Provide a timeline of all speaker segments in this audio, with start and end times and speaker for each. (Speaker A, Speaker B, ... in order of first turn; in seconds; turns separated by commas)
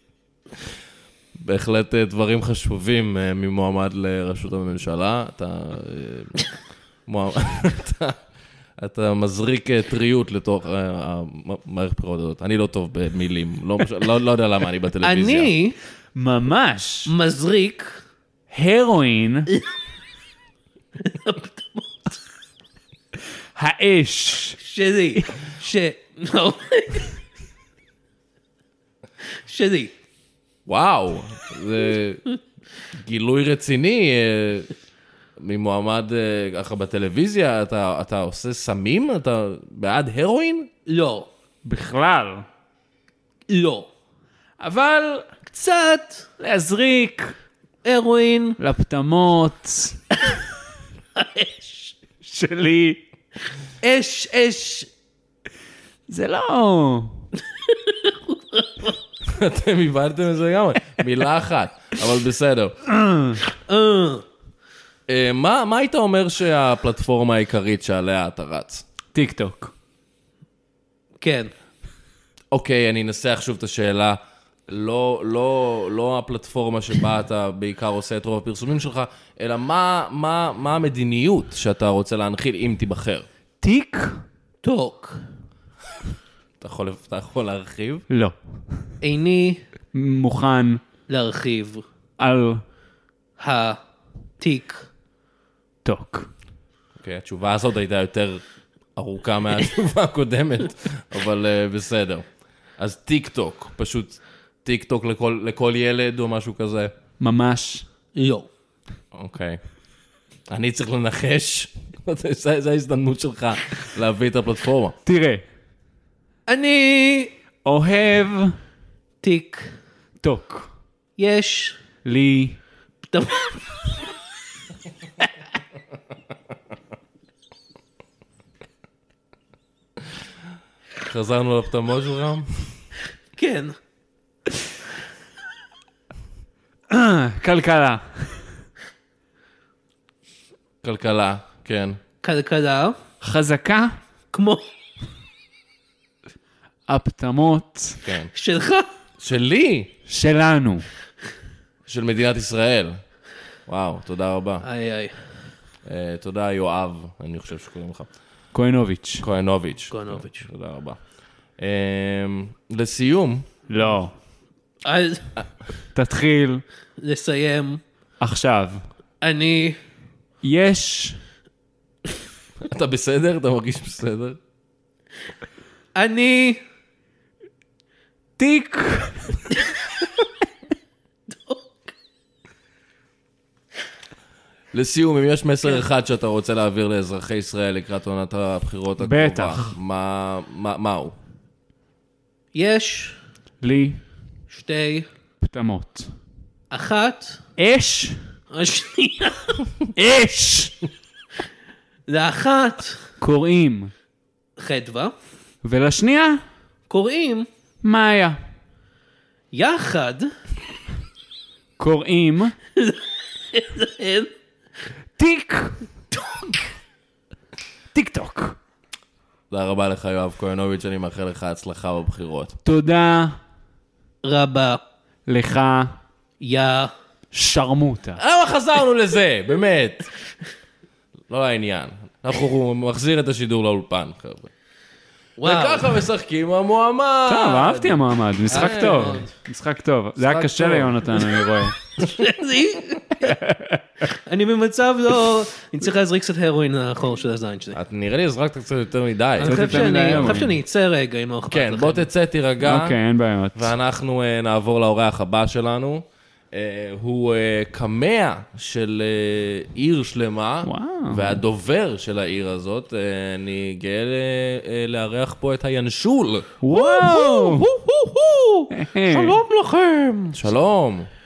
Speaker A: 1.3-6.4, Speaker A: 7.0-8.2, Speaker A: 8.8-15.5, Speaker B: 15.0-15.8, Speaker C: 16.1-17.1, Speaker B: 17.1-18.0, Speaker C: 18.5-19.5, Speaker B: 21.0-22.2, Speaker C: 23.6-24.6, Speaker B: 24.6-27.2, Speaker B: 29.4-29.9, Speaker A: 30.7-32.2, Speaker A: 33.0-34.7, Speaker A: 35.4-40.7, Speaker B: 40.9-41.3, Speaker C: 41.6-42.5, Speaker B: 43.5-43.9, Speaker C: 44.6-45.3, Speaker B: 45.5-46.3, Speaker C: 46.4-47.3, Speaker B: 47.8-48.6, Speaker C: 48.6-50.0, Speaker B: 51.1-51.9, Speaker C: 52.2-53.0, Speaker B: 53.8-54.9, Speaker C: 56.1-57.2, Speaker B: 57.5-59.0, Speaker A: 59.2-62.8, Speaker C: 62.9-63.4, Speaker B: 63.5-64.2, Speaker A: 65.1-68.8, Speaker C: 69.1-69.7, Speaker B: 71.2-71.5, Speaker A: 72.5-83.3, Speaker C: 83.6-84.2, Speaker B: 84.6-85.2, Speaker A: 86.6-88.0, Speaker C: 88.1-88.4, Speaker B: 89.0-89.6, Speaker C: 89.9-90.8, Speaker B: 91.1-91.8, Speaker C: 92.2-92.6, Speaker B: 93.4-93.8, Speaker B: 94.4-94.9, Speaker C: 95.8-96.3, Speaker A: 97.0-98.4, Speaker A: 98.9-102.3, Speaker A: 102.8-106.9, Speaker C: 107.2-107.8, Speaker B: 108.1-108.5, Speaker A: 109.1-109.6, Speaker A: 110.5-115.0, Speaker C: 115.0-115.4, Speaker B: 116.5-117.3, Speaker C: 117.6-118.5, Speaker B: 119.2-119.7, Speaker C: 120.2-120.7, Speaker B: 121.2-121.8, Speaker C: 122.0-122.6, Speaker B: 123.1-123.6, Speaker A: 131.0-132.7, Speaker B: 133.3-133.8, Speaker C: 136.9-138.5, Speaker A: 140.8-142.0, Speaker B: 142.2-143.0, Speaker C: 143.2-143.9, Speaker B: 144.3-144.6, Speaker C: 146.9-148.0, Speaker A: 148.0-148.3, Speaker B: 148.3-148.9, Speaker A: 149.2-149.9, Speaker C: 150.1-150.9, Speaker A: 151.9-153.0, Speaker A: 153.7-154.6, Speaker B: 154.6-155.2, Speaker A: 155.8-158.1, Speaker C: 158.5-159.2, Speaker A: 159.2-161.0, Speaker B: 159.9-160.5, Speaker A: 161.6-163.5, Speaker C: 163.7-164.1, Speaker B: 164.8-165.4, Speaker C: 165.9-166.6, Speaker B: 167.0-167.8, Speaker C: 168.2-168.8, Speaker B: 169.2-169.8, Speaker C: 170.4-171.2, Speaker A: 172.6-174.4, Speaker B: 175.9-176.6, Speaker C: 178.4-179.4, Speaker B: 181.3-181.9, Speaker A: 184.7-191.2, Speaker C: 189.0-189.7, Speaker B: 192.5-193.2, Speaker C: 193.6-194.0, Speaker B: 194.5-195.1, Speaker C: 195.4-196.1, Speaker B: 196.7-197.4, Speaker C: 197.6-198.2, Speaker B: 198.5-199.6, Speaker C: 199.9-200.7, Speaker B: 202.1-203.0, Speaker C: 203.2-203.9, Speaker B: 204.6-205.1, Speaker C: 205.6-206.4, Speaker B: 206.9-207.5, Speaker C: 207.8-208.4, Speaker B: 209.5-210.3, Speaker C: 211.8-212.5, Speaker B: 212.8-214.3, Speaker C: 215.2-215.8, Speaker B: 216.1-216.6, Speaker C: 217.9-218.6, Speaker A: 219.5-222.6, Speaker C: 222.6-223.4, Speaker B: 224.2-224.8, Speaker C: 225.3-225.9, Speaker B: 226.4-226.9, Speaker C: 227.3-228.2, Speaker A: 228.2-230.1, Speaker A: 231.3-234.5, Speaker B: 235.4-236.0, Speaker A: 235.4-239.2, Speaker C: 237.3-241.8, Speaker B: 238.5-239.3, Speaker A: 240.3-240.7, Speaker B: 240.6-241.4, Speaker B: 242.0-243.4, Speaker C: 243.2-243.8, Speaker B: 244.0-247.8, Speaker A: 247.7-250.4, Speaker B: 249.4-252.1, Speaker C: 249.4-250.5, Speaker A: 251.5-253.0, Speaker C: 252.6-253.7, Speaker A: 253.5-266.5, Speaker C: 260.6-261.4, Speaker C: 266.6-267.7, Speaker B: 266.7-270.5, Speaker C: 268.7-269.4, Speaker A: 270.3-271.1